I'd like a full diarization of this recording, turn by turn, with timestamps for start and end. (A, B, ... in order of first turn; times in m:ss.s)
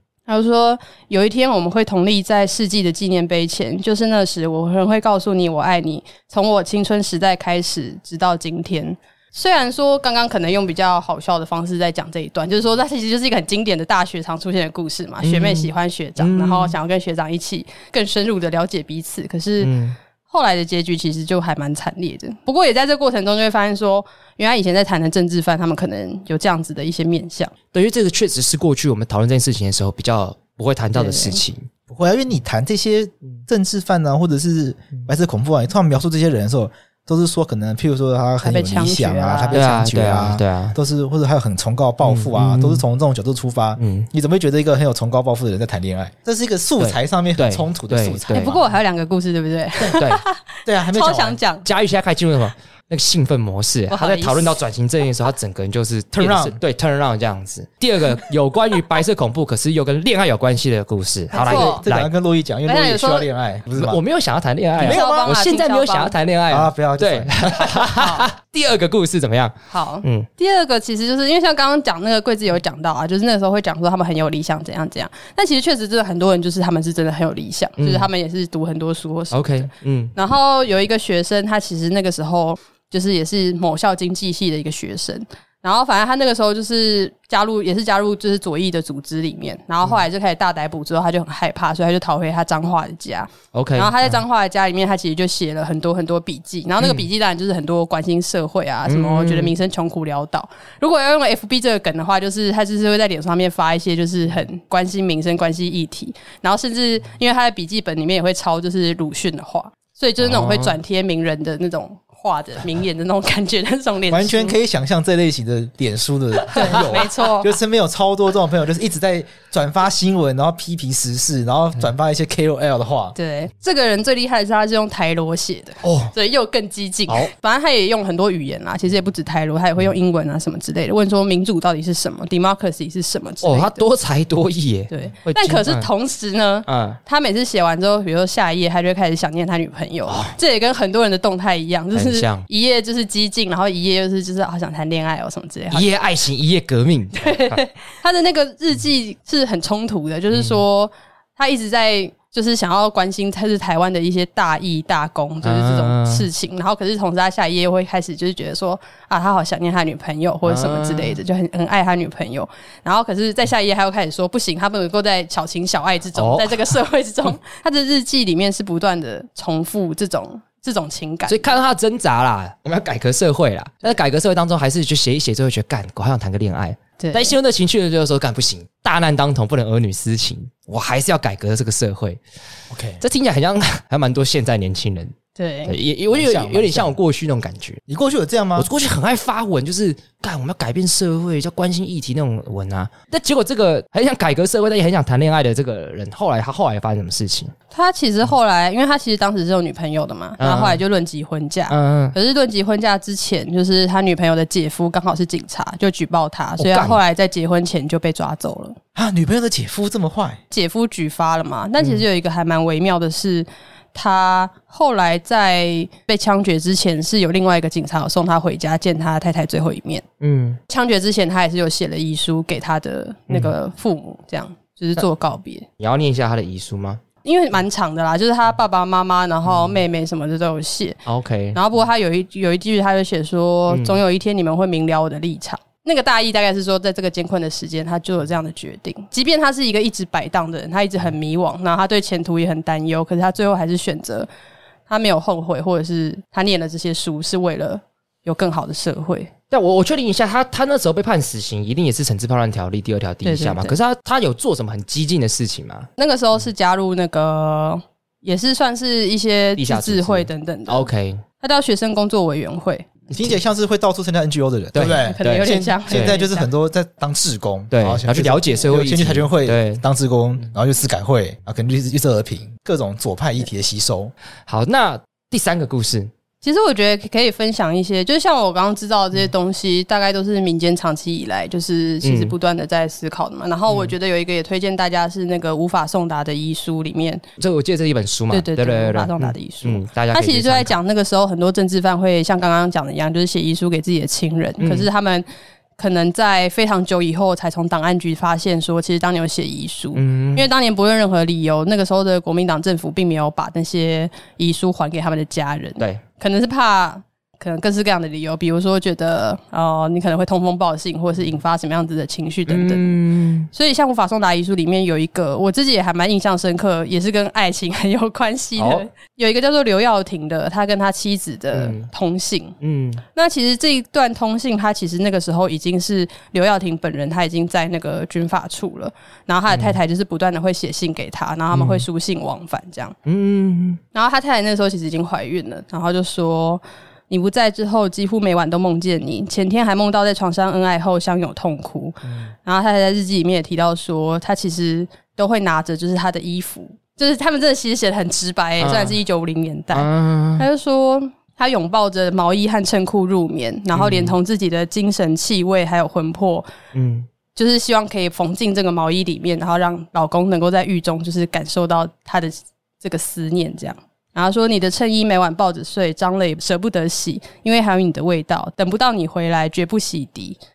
0:00.3-0:19.7 A
0:15.2-0:16.7 B
0:19.6-0:20.0 B
0:20.3-0:27.5 A
0:27.7-0:31.7 B
0:30.9-0:31.4 A
0:31.9-0:48.6 C
0:38.4-0:39.7 A
0:39.5-0:40.8 B
0:42.0-0:42.8 B
0:43.8-0:44.1 B
0:46.8-0:48.6 B
0:48.3-0:51.6 A
0:49.9-0:50.2 B
0:50.6-0:51.4 C
0:51.6-1:02.1 B
0:53.9-0:54.6 A
0:56.2-0:56.6 C
1:01.3-1:01.8 A
1:01.4-1:04.0 C
1:02.6-1:03.3 A
1:03.7-1:10.3 B
1:04.8-1:05.4 C
1:04.8-1:06.1 A
1:06.5-1:07.9 C
1:07.9-1:08.3 A
1:09.7-1:54.6 A
1:17.8-1:18.1 B
1:19.3-1:20.1 B
1:33.5-1:34.2 B
1:36.8-1:37.1 B
1:38.9-1:39.5 B
1:50.2-1:50.8 B
1:54.1-2:03.2 C
1:56.5-1:57.6 A
2:03.2-2:13.8 A
2:05.8-2:06.1 B
2:13.4-2:15.9 B
2:14.9-2:25.9 A
2:16.6-2:17.0 B
2:20.1-2:20.3 B
2:21.9-2:22.4 B
2:25.7-2:27.6 B
2:27.2-2:51.6 A
2:30.3-2:30.6 B
2:35.4-2:36.3 B
2:40.4-2:41.2 B
2:46.1-2:46.8 B
2:51.3-3:02.2 B
2:57.0-2:57.3 A
3:02.7-3:03.0 C
3:03.0-3:05.1 B
3:05.4-3:05.7 A
3:05.7-3:07.8 B
3:06.1-3:06.9 C
3:07.9-3:08.7 C
3:08.6-3:17.5 B
3:17.7-3:28.8 A
3:20.4-3:20.8 B
3:21.7-3:22.1 B
3:26.6-3:27.0 B
3:28.9-3:30.4 C
3:30.5-3:40.0 A
3:31.8-3:32.0 B
3:40.2-3:40.6 B
3:40.7-3:45.7 A
3:43.3-3:43.5 B
3:45.8-3:47.0 B
3:47.2-3:51.0 A
3:49.4-3:49.8 B
3:51.0-3:51.6 B
3:51.5-4:04.3 A
3:53.7-3:54.0 B
4:04.9-4:09.3 A
4:09.5-4:15.9 B
4:13.2-4:13.8 A
4:16.0-4:20.9 A
4:19.6-4:21.2 B
4:21.4-4:23.1 A
4:23.1-4:34.1 C
4:24.7-4:26.2 B
4:25.0-4:26.5 A
4:27.7-4:29.8 B
4:34.5-4:36.1 B
4:36.4-4:47.2 A
4:42.0-4:42.4 B
4:43.7-4:43.9 B
4:47.4-4:50.8 B
4:48.3-4:55.2 A
4:54.6-4:54.9 B
4:55.8-5:13.0 A
4:59.9-5:00.5 B
5:12.5-5:13.5 B
5:13.5-5:22.5 A
5:18.6-5:18.8 B
5:21.5-5:21.9 B
5:22.6-5:23.0 B
5:23.1-5:33.0 A
5:29.5-5:29.8 B
5:31.5-5:31.8 B
5:33.0-5:33.8 B
5:33.9-5:56.5 A
5:42.0-5:42.3 B
5:48.6-5:49.0 B
5:49.7-5:50.4 B
5:53.7-5:54.2 B
5:56.7-5:57.1 B
5:57.3-6:10.4 A